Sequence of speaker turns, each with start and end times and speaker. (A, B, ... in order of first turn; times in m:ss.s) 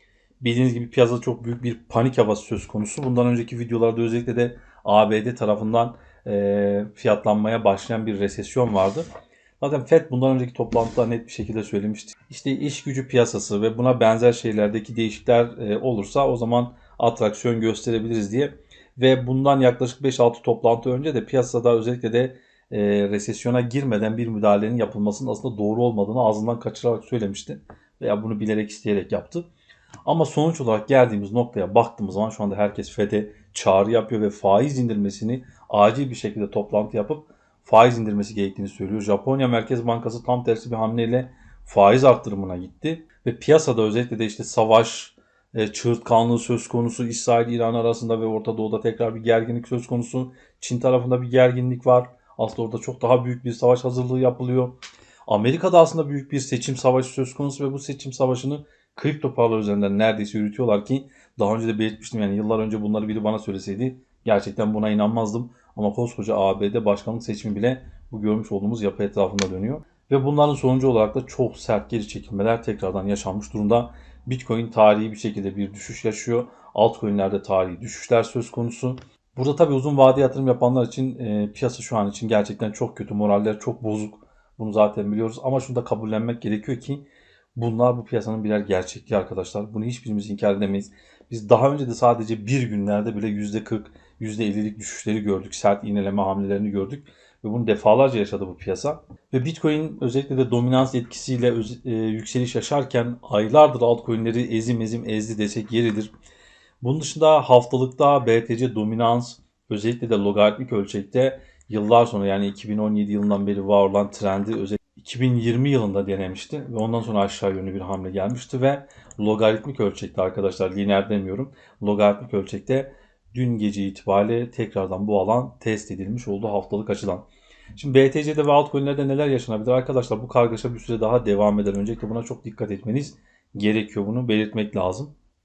0:00.4-0:09.1 A
0:09.6-0:29.5 A
0:30.1-1:46.1 A
1:46.8-2:15.1 A